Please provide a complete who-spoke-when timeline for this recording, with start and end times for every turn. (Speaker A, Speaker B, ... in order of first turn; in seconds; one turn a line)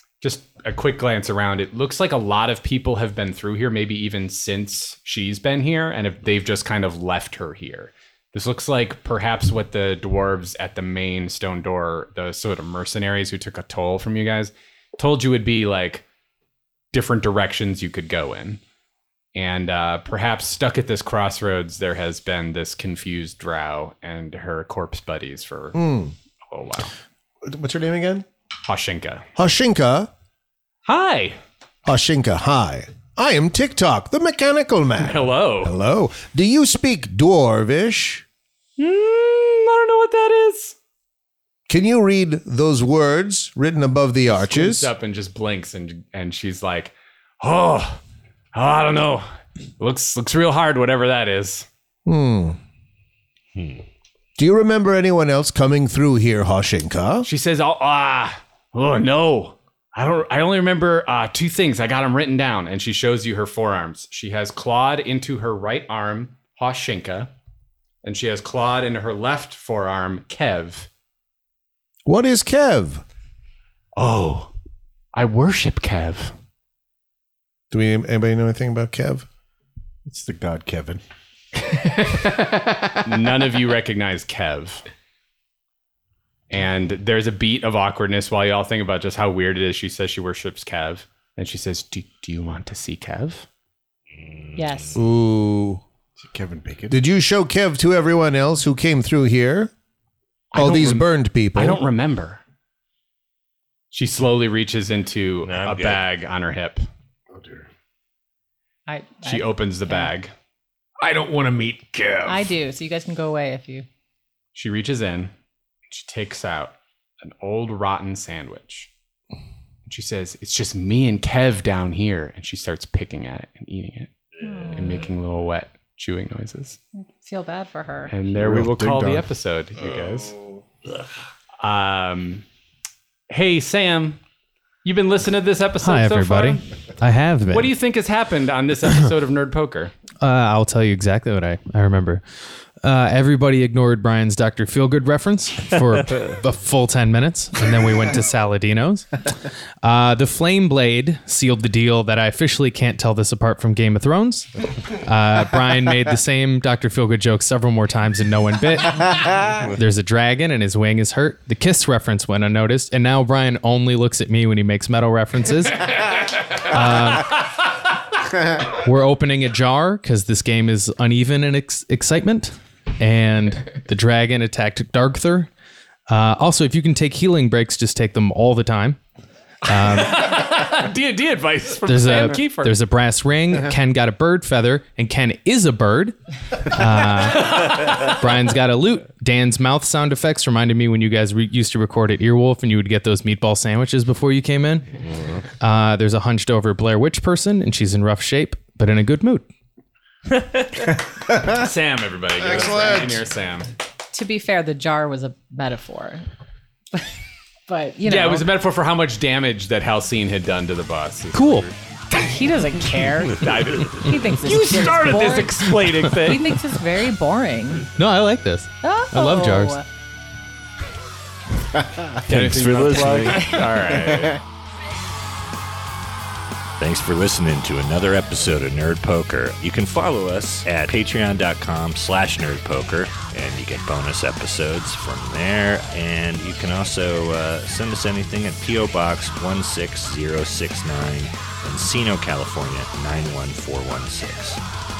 Speaker A: 0.2-16.0
Speaker A: 16.9-18.6
Speaker A: 19.3-25.8
Speaker B: 25.7-26.1
Speaker A: 26.5-26.9
Speaker B: 27.4-28.2
Speaker A: 28.6-29.2
Speaker B: 29.4-30.1
Speaker A: 30.8-31.4
Speaker B: 31.8-38.2
Speaker A: 35.0-35.8
Speaker A: 38.8-40.7
Speaker B: 41.7-44.9
Speaker A: 44.3-48.0
Speaker A: 48.5-49.3
Speaker A: 49.8-51.7
Speaker B: 52.0-52.6
Speaker C: 53.5-53.8
Speaker B: 54.4-57.3
Speaker A: 57.2-67.3
Speaker A: 68.0-70.9
Speaker B: 72.0-73.0
Speaker A: 74.0-74.5
Speaker A: 75.1-76.3
Speaker B: 77.7-79.3
Speaker D: 80.0-81.0
Speaker E: 81.6-83.0
Speaker A: 83.0-84.8
Speaker A: 86.5-93.5
Speaker C: 94.1-95.0
Speaker F: 94.5-95.0
Speaker B: 95.0-95.8
Speaker D: 96.2-97.0
Speaker B: 96.9-99.7
Speaker A: 100.5-102.4
Speaker B: 100.5-101.8
Speaker A: 103.9-106.9
Speaker C: 105.4-106.0
Speaker D: 107.3-107.7
Speaker F: 108.9-110.1
Speaker A: 109.2-110.3
Speaker E: 111.0-112.4
Speaker F: 112.3-113.9
Speaker A: 114.5-115.3
Speaker A: 115.9-118.9
Speaker A: 119.9-124.1
Speaker C: 124.3-125.0
Speaker F: 124.4-125.0
Speaker A: 124.7-126.8
Speaker F: 127.0-128.1
Speaker A: 128.1-130.4
Speaker D: 128.3-129.3
Speaker A: 131.6-132.4
Speaker A: 133.3-134.2
Speaker A: 134.8-136.6
Speaker G: 135.8-137.7
Speaker A: 137.5-139.9
Speaker G: 140.2-142.2
Speaker G: 142.8-166.1
Speaker G: 166.6-167.5
Speaker G: 168.7-175.5
Speaker G: 176.1-179.0
Speaker G: 179.7-180.5
Speaker A: 179.7-182.8
Speaker G: 181.9-194.9
Speaker G: 195.6-199.4
Speaker C: 200.4-200.6
Speaker A: 201.4-203.7
Speaker B: 202.4-203.2
Speaker F: 204.1-206.3
Speaker F: 207.7-208.5
Speaker A: 208.1-211.7
Speaker G: 211.3-211.7
Speaker F: 212.1-217.9
Speaker A: 213.4-216.5
Speaker G: 218.0-219.8
Speaker F: 218.8-219.8
Speaker A: 222.3-224.4
Speaker C: 222.3-223.6
Speaker C: 226.8-244.6